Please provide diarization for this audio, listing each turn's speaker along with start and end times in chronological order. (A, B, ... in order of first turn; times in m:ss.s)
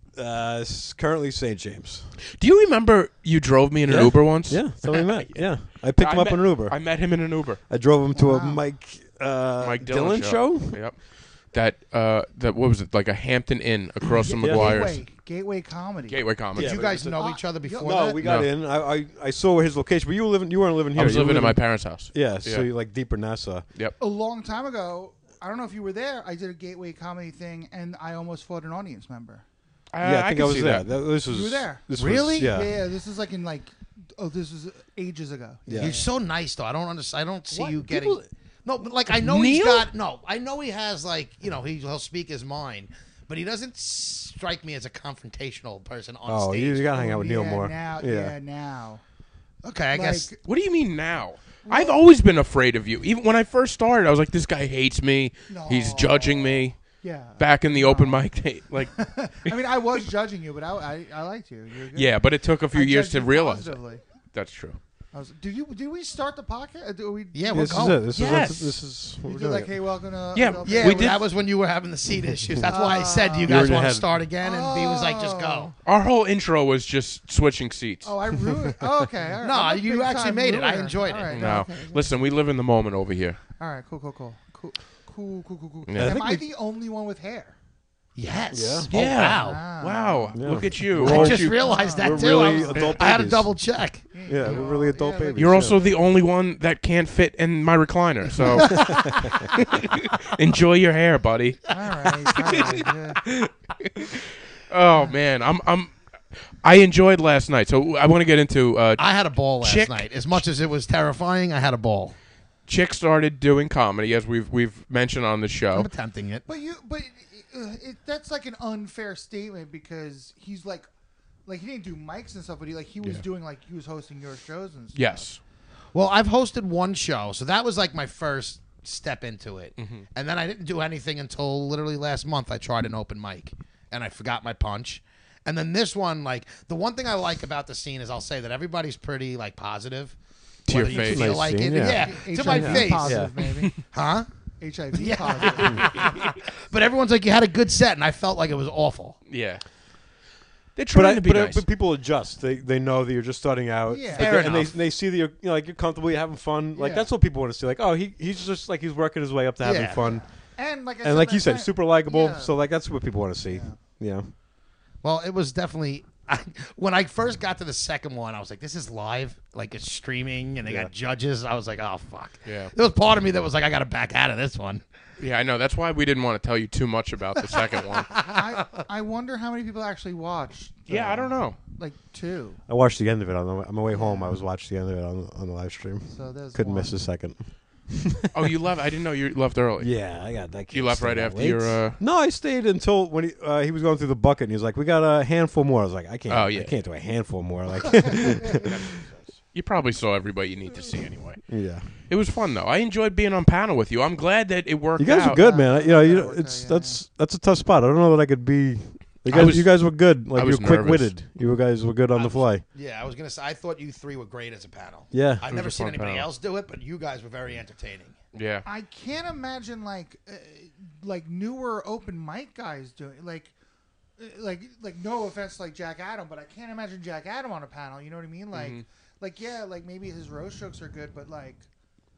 0:00.2-0:02.2 A
0:02.4-0:07.6 B
0:03.9-0:06.8 A
0:07.7-0:10.8 A
0:08.1-0:08.6 C
0:09.6-0:15.0 B
0:14.2-0:14.5 D
0:14.4-0:14.8 A
0:14.5-0:16.2 C
0:16.1-0:16.8 B
0:16.6-0:18.2 D
0:16.6-0:23.6 A
0:17.0-0:18.1 C
0:18.2-0:18.5 B
0:20.9-0:22.7 B
0:24.0-0:29.4 C
0:29.9-0:30.9 B
0:30.0-0:32.7 A
0:31.3-0:31.8 C
0:31.9-0:32.6 D
0:32.4-0:36.1 C
0:35.7-0:36.0 A
0:35.7-0:46.9 D
0:37.6-0:38.3 A
0:39.1-0:39.9 B
0:46.3-0:48.3 A
0:46.9-0:49.0 C
0:49.6-0:50.3 D
0:49.9-0:50.4 C
0:50.4-0:56.8 B
0:51.6-0:52.0 C
0:55.5-0:58.3 C
0:57.4-0:59.6 B
0:59.0-1:02.2 C
1:01.9-1:03.8 B
1:02.7-1:04.0 C
1:04.3-1:04.8 B
1:05.1-1:08.0 C
1:07.3-1:08.1 D
1:07.5-1:09.8 A
1:08.1-1:08.8 B
1:09.2-1:11.2 C
1:10.4-1:11.3 B
1:10.6-1:15.7 D
1:12.7-1:13.8 C
1:13.4-1:14.1 A
1:14.4-1:15.7 C
1:15.8-1:18.2 B
1:18.0-1:22.1 C
1:19.4-1:21.5 D
1:21.3-1:23.4 B
1:23.6-1:27.6 C
1:25.9-1:26.2 B
1:26.0-1:26.4 A
1:28.2-1:29.6 D
1:28.5-1:28.9 A
1:28.9-1:31.8 B
1:29.4-1:30.4 C
1:30.4-1:33.5 A
1:30.9-1:34.6 D
1:31.4-1:33.0 C
1:34.1-1:35.9 C
1:34.3-1:35.8 A
1:35.4-1:46.0 B
1:38.7-1:39.5 A
1:41.7-1:43.2 C
1:44.9-1:45.2 C
1:46.6-1:50.4 B
1:49.0-1:52.2 D
1:52.7-1:55.9 B
1:55.7-1:56.5 D
1:56.5-2:00.9 C
2:01.5-2:05.3 C
2:04.9-2:05.4 B
2:05.9-2:23.3 D
2:09.8-2:10.1 B
2:20.7-2:21.5 B
2:20.8-2:23.3 A
2:21.6-2:23.8 C
2:23.5-2:23.8 B
2:23.9-2:24.3 D
2:24.6-2:26.2 C
2:24.9-2:29.2 D
2:25.6-2:25.9 A
2:29.3-2:29.6 B
2:30.8-2:31.6 B
2:30.9-2:40.2 A
2:33.9-2:34.7 C
2:34.2-2:34.7 D
2:36.7-2:37.1 C
2:39.6-2:40.1 D
2:40.0-2:42.6 C
2:41.0-2:44.3 A
2:43.5-2:43.8 C
2:45.0-2:54.8 D
2:50.6-2:50.9 A
2:52.4-2:52.7 B
2:55.2-2:58.3 B
2:58.0-2:58.7 D
2:58.3-3:02.6 C
3:00.9-3:01.6 B
3:02.7-3:08.5 A
3:03.9-3:04.4 C
3:06.1-3:06.9 C
3:08.3-3:10.0 B
3:09.8-3:18.9 A
3:10.7-3:12.0 B
3:16.3-3:16.8 B
3:18.0-3:18.4 C
3:18.4-3:25.4 B
3:21.5-3:21.9 A
3:25.0-3:32.6 A
3:25.3-3:27.0 C
3:29.3-3:31.1 B
3:32.1-3:38.2 D
3:35.1-3:35.4 A
3:35.5-3:36.3 B
3:38.3-3:38.6 B
3:38.6-3:43.5 C
3:44.2-3:51.6 C
3:48.5-3:48.8 B